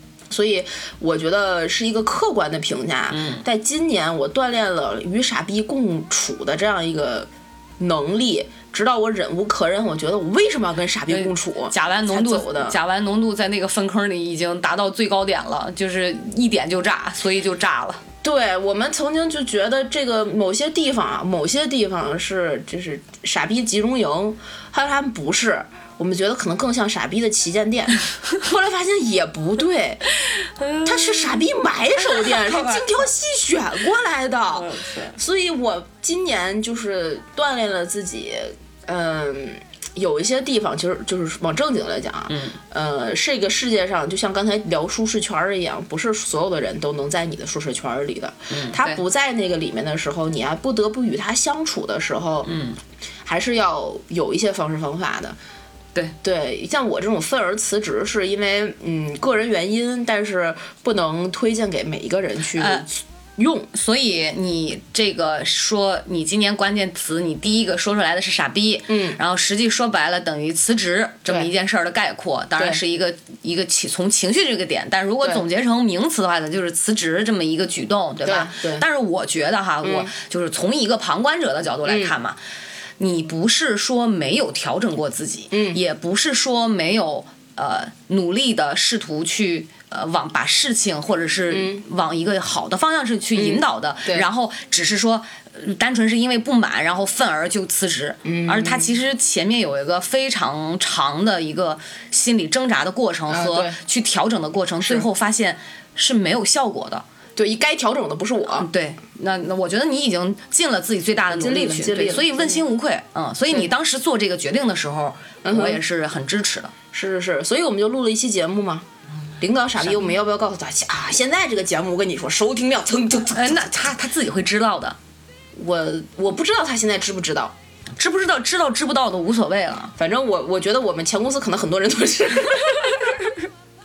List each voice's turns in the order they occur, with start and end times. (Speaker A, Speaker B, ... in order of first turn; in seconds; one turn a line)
Speaker A: 0.3-12.8
Speaker B: 3.1-3.5
Speaker B: 11.1-18.0
Speaker A: 18.2-30.1
Speaker B: 30.6-31.4
Speaker A: 30.8-52.6
Speaker B: 32.2-32.8
Speaker B: 34.5-35.2
Speaker B: 42.3-42.6
Speaker B: 48.5-49.0
Speaker B: 52.5-52.8
Speaker A: 53.2-55.4
Speaker A: 56.2-63.7
Speaker B: 62.6-62.9
Speaker B: 63.7-82.4
Speaker A: 68.9-69.2
Speaker A: 78.2-78.9
Speaker A: 79.8-80.1
Speaker A: 81.8-82.2
Speaker B: 83.0-107.0
Speaker A: 85.5-85.8
Speaker A: 91.5-91.8
Speaker A: 93.3-94.3
Speaker A: 98.2-99.0
Speaker A: 103.3-103.8
Speaker A: 107.4-108.7
Speaker B: 108.6-116.7
Speaker A: 111.3-112.6
Speaker A: 115.4-115.8
Speaker A: 116.9-118.9
Speaker A: 119.4-123.7
Speaker B: 123.3-125.0
Speaker A: 125.5-127.5
Speaker B: 128.0-129.9
Speaker A: 130.0-133.2